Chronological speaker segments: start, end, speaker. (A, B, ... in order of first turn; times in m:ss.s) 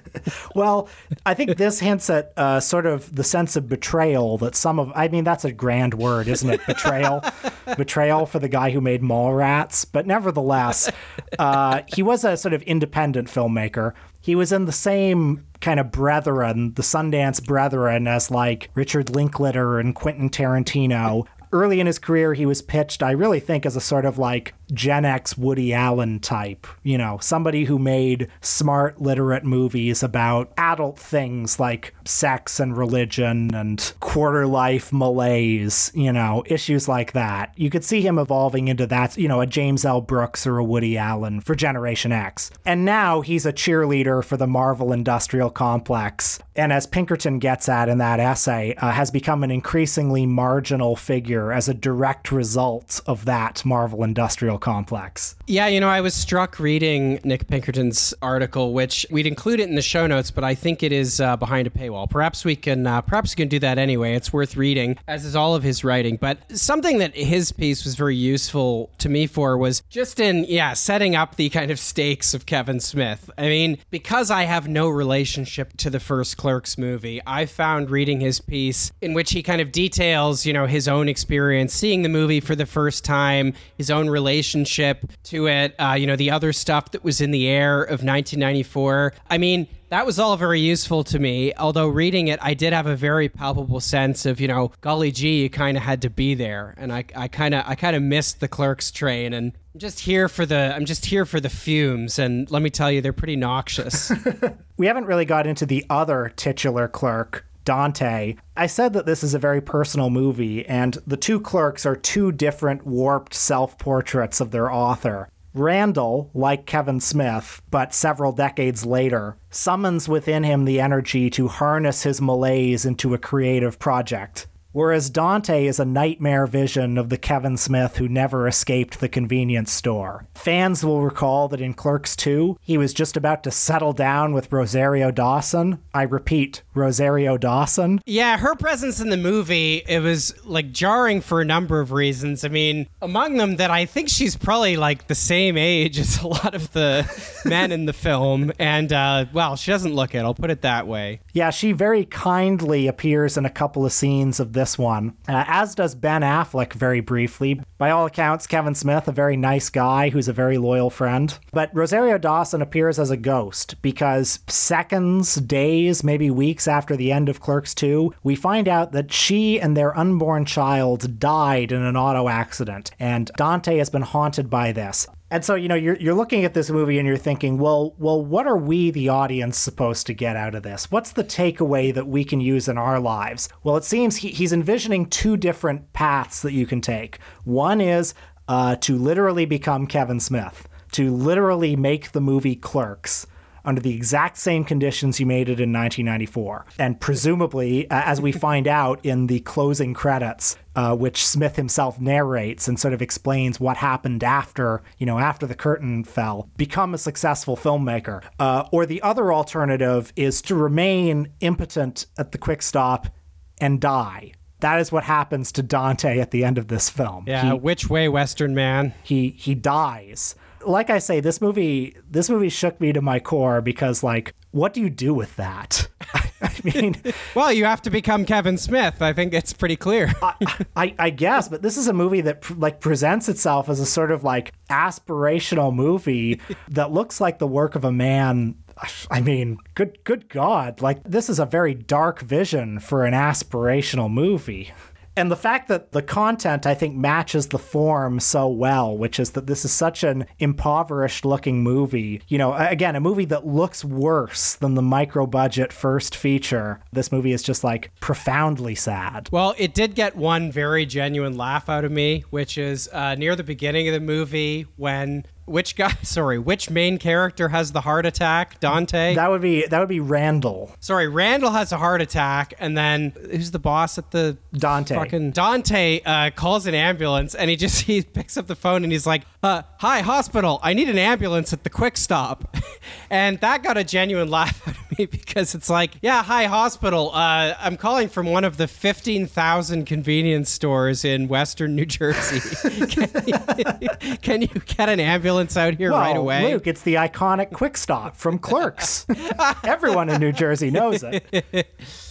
0:00.5-0:55.3 A
0:55.5-1:44.2 B
1:44.2-2:18.0 A
2:18.0-2:31.2 B
2:31.3-3:37.6 A
3:37.2-3:39.0 B
3:39.0-3:47.1 A
3:47.2-3:50.5 B
3:50.2-4:19.3 A
4:19.3-4:29.2 B
4:29.1-4:30.7 A
4:30.8-4:42.5 B
4:34.5-4:35.1 A
4:43.1-4:56.6 B
4:55.9-5:01.2 A
4:59.3-5:00.1 B
5:00.9-5:01.7 B